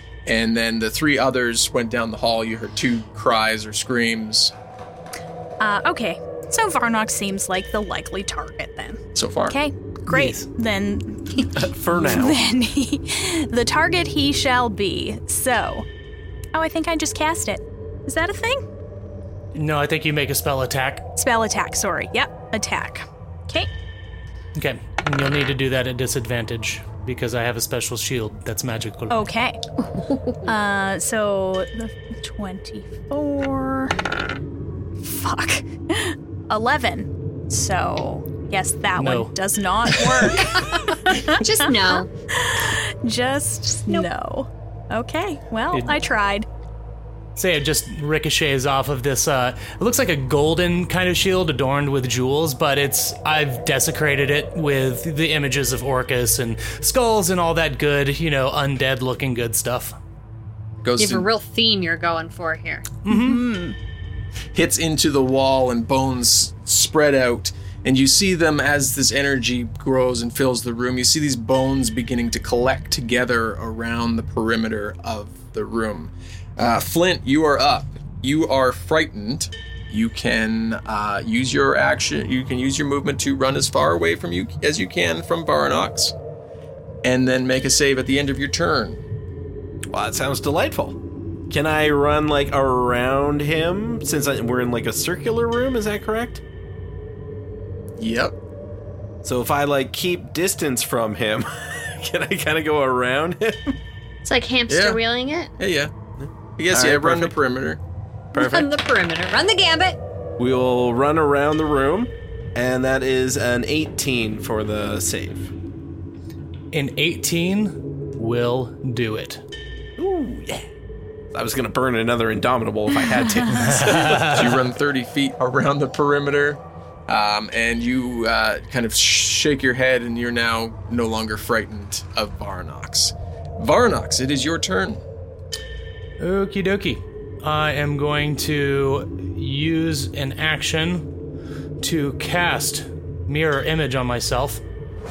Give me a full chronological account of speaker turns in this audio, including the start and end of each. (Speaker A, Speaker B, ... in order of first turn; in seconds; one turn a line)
Speaker A: 0.3-4.5
Speaker B: 5.6-15.9
Speaker A: 9.2-9.6
Speaker C: 10.1-10.5
Speaker D: 11.5-12.4
Speaker B: 16.5-18.6
Speaker C: 19.5-21.1
Speaker B: 21.2-23.7
Speaker C: 24.6-29.2
Speaker B: 29.1-29.6
Speaker E: 30.0-30.4
Speaker B: 30.4-34.0
Speaker B: 35.0-46.5
Speaker C: 39.0-39.3
Speaker E: 40.4-42.1
Speaker C: 45.7-46.0
Speaker C: 47.4-60.0
Speaker A: 60.8-61.3
Speaker E: 61.0-62.9
Speaker C: 63.1-63.4
Speaker B: 63.1-63.8
Speaker A: 64.5-86.1
Speaker A: 87.0-89.0
Speaker D: 89.9-91.0
Speaker D: 91.5-96.4
Speaker A: 98.0-98.4
Speaker D: 99.2-103.8
Speaker E: 104.2-105.5
Speaker A: 104.7-105.0
Speaker A: 105.6-105.9
Speaker D: 106.2-107.3
Speaker A: 106.6-107.8
Speaker D: 108.3-108.7
Speaker E: 108.3-110.0
Speaker D: 110.4-115.5
Speaker C: 116.7-119.4
Speaker D: 120.0-120.7
Speaker D: 121.3-124.4
Speaker C: 123.6-124.5
Speaker A: 124.2-135.0
Speaker C: 136.2-141.1
Speaker C: 141.8-144.6